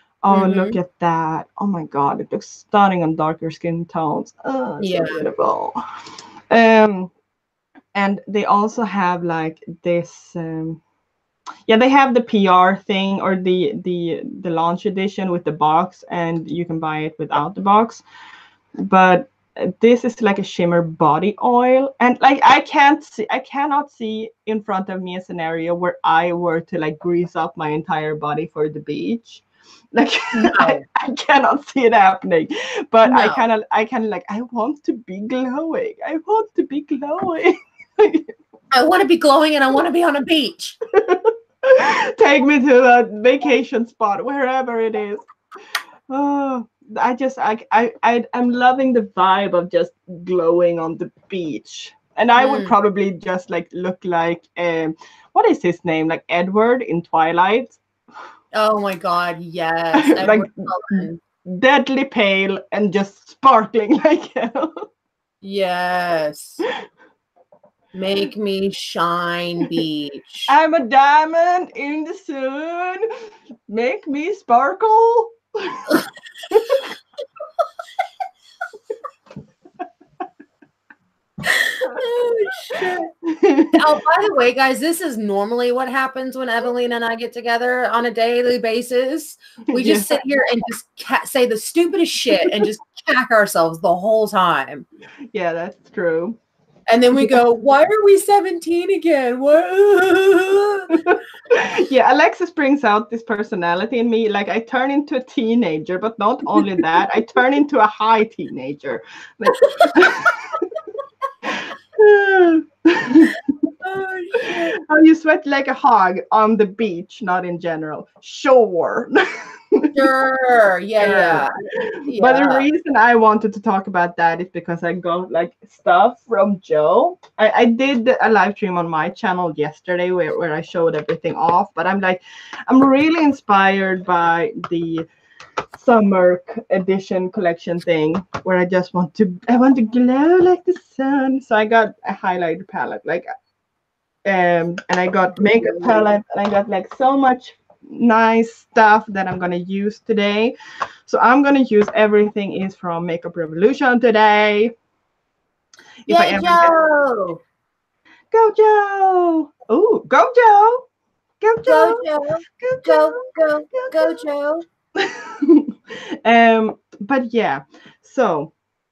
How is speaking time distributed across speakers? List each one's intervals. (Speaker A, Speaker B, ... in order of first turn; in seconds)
Speaker A: 0.2-5.8, 6.5-7.1, 8.0-10.8, 11.7-18.0, 18.8-38.3, 40.9-45.2, 46.1-57.8, 59.9-64.9, 70.5-73.1, 73.7-76.9, 83.2-83.8, 89.7-90.2, 92.4-92.7, 95.3-96.4, 97.1-97.4, 100.9-110.8, 111.4-113.7, 114.3-120.1, 121.0-135.1, 135.8-143.2, 144.2-150.6, 151.1-154.7, 156.1-156.8, 158.3-160.9, 161.4-162.1, 162.6-164.2, 165.0-168.5
Speaker B: 0.3-0.8, 4.8-5.2, 30.3-30.8, 33.0-33.5, 38.7-40.8, 52.4-52.7, 58.5-61.2, 65.4-66.6, 67.9-70.5, 81.4-83.1, 83.7-94.9, 96.9-101.0, 109.6-110.0, 113.8-114.8, 119.9-121.5, 122.1-122.7, 145.3-146.0, 156.1-157.4, 161.6-164.7